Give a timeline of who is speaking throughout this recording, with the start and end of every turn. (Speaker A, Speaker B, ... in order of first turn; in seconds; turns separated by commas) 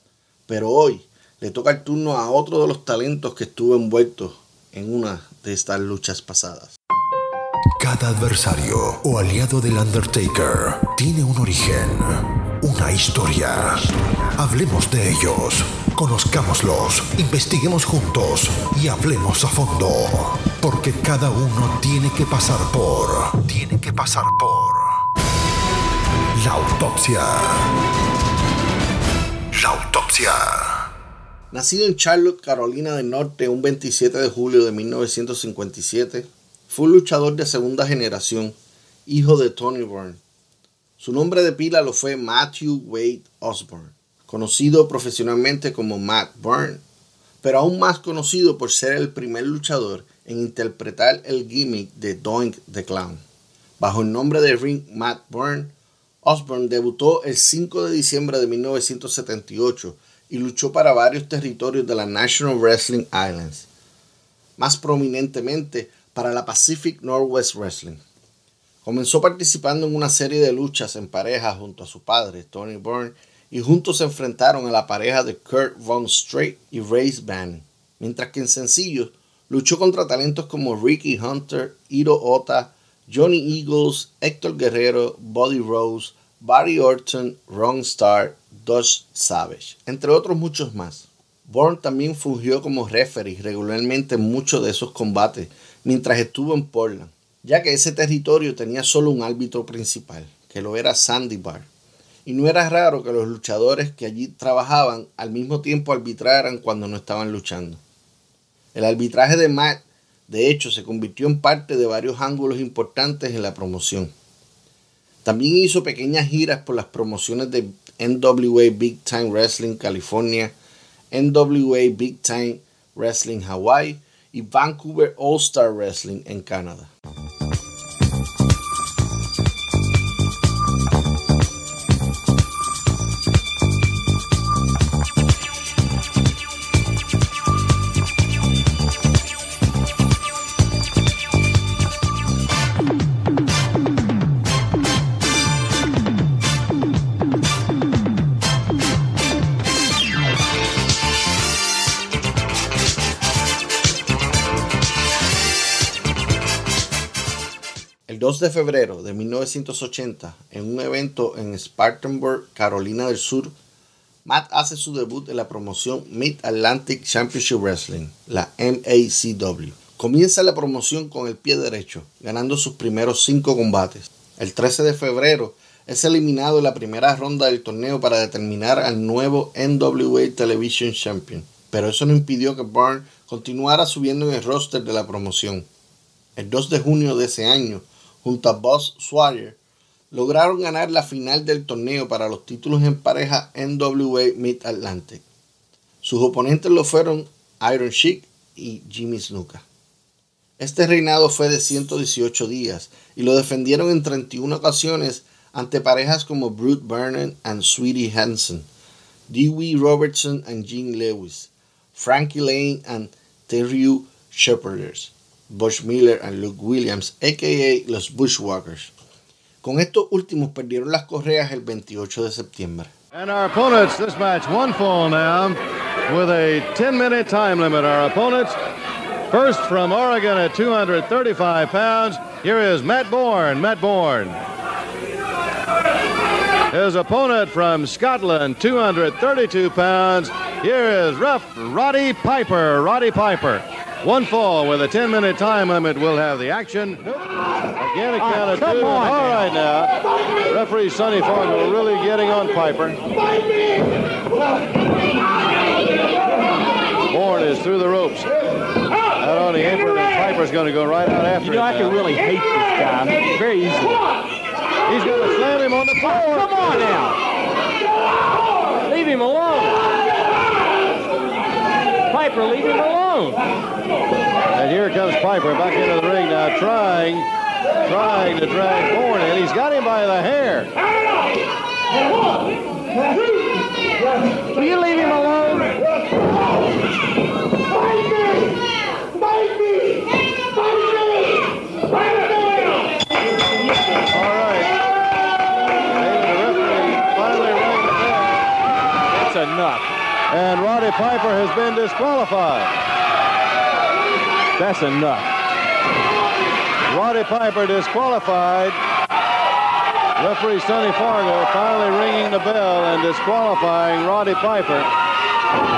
Speaker A: 0.5-6.8, Speaker B: 7.8-25.0, Speaker B: 26.4-27.7, Speaker B: 29.5-30.9, Speaker A: 31.5-38.5, Speaker A: 39.1-40.2, Speaker A: 41.0-46.8, Speaker A: 47.4-53.2, Speaker A: 53.8-55.7, Speaker A: 56.2-63.7, Speaker A: 64.6-68.0, Speaker A: 68.8-101.7, Speaker A: 102.3-107.8, Speaker A: 108.7-114.1, Speaker A: 115.2-120.5, Speaker A: 121.1-126.9, Speaker A: 158.1-163.5, Speaker A: 164.3-185.7, Speaker A: 186.4-189.6, Speaker A: 190.1-195.2, Speaker A: 196.0-199.6, Speaker A: 200.6-208.7, Speaker A: 209.3-218.9, Speaker A: 219.6-222.9, Speaker C: 223.1-228.6, Speaker C: 229.3-234.4, Speaker C: 236.7-249.9, Speaker D: 248.2-249.6, Speaker C: 250.5-253.0, Speaker C: 257.1-258.3, Speaker C: 259.2-262.0, Speaker D: 261.4-264.1, Speaker C: 264.9-266.6, Speaker D: 266.4-267.2, Speaker C: 268.9-269.8, Speaker C: 272.1-273.4, Speaker C: 274.6-277.3, Speaker C: 277.9-280.7, Speaker C: 284.6-285.8, Speaker C: 294.0-294.7, Speaker C: 296.0-298.3, Speaker D: 299.1-299.9, Speaker C: 300.3-302.7, Speaker C: 304.6-305.2, Speaker D: 304.6-305.2, Speaker C: 306.9-308.8, Speaker C: 310.2-314.9